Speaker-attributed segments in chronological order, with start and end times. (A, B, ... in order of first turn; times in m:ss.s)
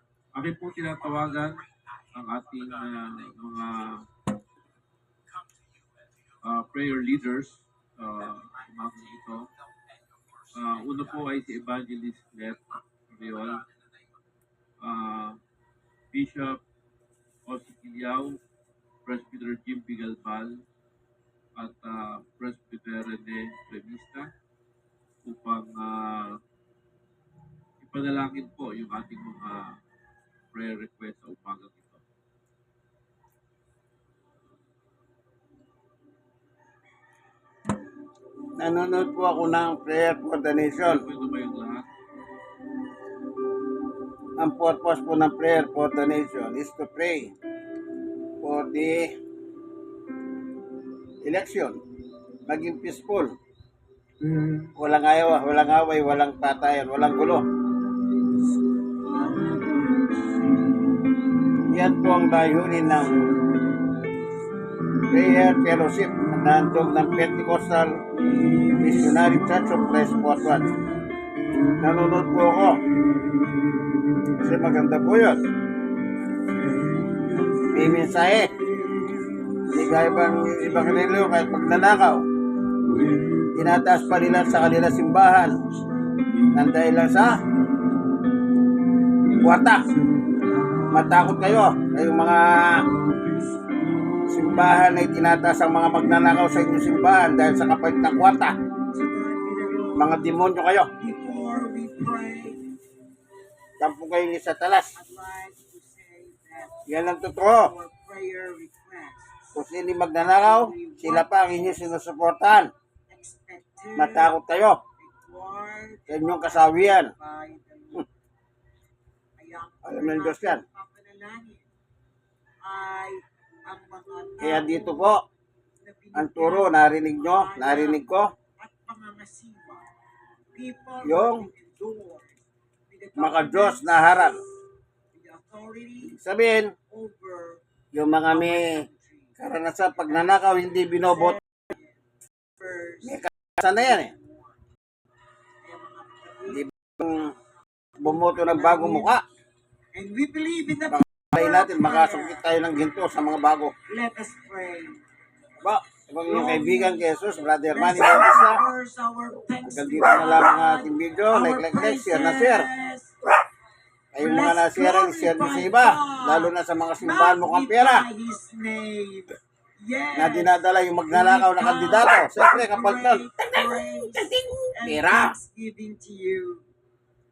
0:00.3-0:04.0 A
0:06.4-0:09.5 A
0:10.5-0:13.6 A
0:14.8-0:15.4 A
0:16.1-0:16.6 A
0:17.4-0:18.4 A
0:19.0-0:20.6 A
0:21.6-0:24.3 A
0:25.2-0:26.4 A
0:27.8-0:29.7 A
0:30.5-0:32.0 A
0:38.6-0:41.1 B
0:40.8-0:41.9 A
0:44.4-0:47.3 B
0:48.4-0:49.1 B
0:51.2-0:51.8 B
0:52.4-0:53.3 B
0:54.7-0:57.4 B
0:58.9-1:00.5 C
1:01.7-1:03.2 B
1:05.1-1:08.0 B
1:08.3-1:09.4 C
1:08.7-1:10.7 B
1:11.8-1:12.8 B
1:14.4-1:15.4 B
1:17.7-1:18.5 B
1:19.7-1:22.2 B
1:23.5-1:25.6 B
1:26.5-1:27.4 B
1:29.3-1:29.8 B
1:30.9-1:32.8 B
1:34.3-1:38.5 B
1:38.9-1:40.2 C
1:39.9-1:40.9 B
1:40.9-1:42.7 C
1:43.8-1:45.0 B
1:44.9-1:46.8 C
1:46.8-1:47.7 B
1:47.5-1:49.5 C
1:49.5-1:52.7 B
1:50.2-1:51.9 C
1:53.1-1:54.4 C
1:53.9-1:54.8 B
1:55.0-1:58.0 C
1:56.1-1:57.1 B
1:59.4-2:01.7 C
1:59.8-2:00.6 B
2:02.6-2:05.1 C
2:04.4-2:05.2 B
2:05.8-2:08.0 C
2:06.1-2:08.3 B
2:08.6-2:09.9 C
2:10.5-2:14.3 C
2:11.0-2:11.5 B
2:13.2-2:14.4 B
2:15.1-2:16.2 C
2:16.0-2:16.7 B
2:16.9-2:17.6 C
2:17.9-2:18.8 B
2:18.3-2:19.4 C
2:19.4-2:21.4 B
2:20.0-2:20.3 C
2:20.9-2:22.0 C
2:22.6-2:24.6 C
2:23.0-2:24.1 B
2:25.6-2:26.6 C
2:26.5-2:27.3 B
2:28.0-2:29.2 C
2:28.0-2:29.2 B
2:29.9-2:32.4 C
2:30.9-2:33.7 B
2:33.9-2:35.0 C
2:35.6-2:38.6 B
2:36.2-2:37.1 C
2:37.6-2:43.1 C
2:39.6-2:42.7 B
2:44.1-2:48.0 B
2:44.2-2:56.6 C
2:50.1-2:55.4 B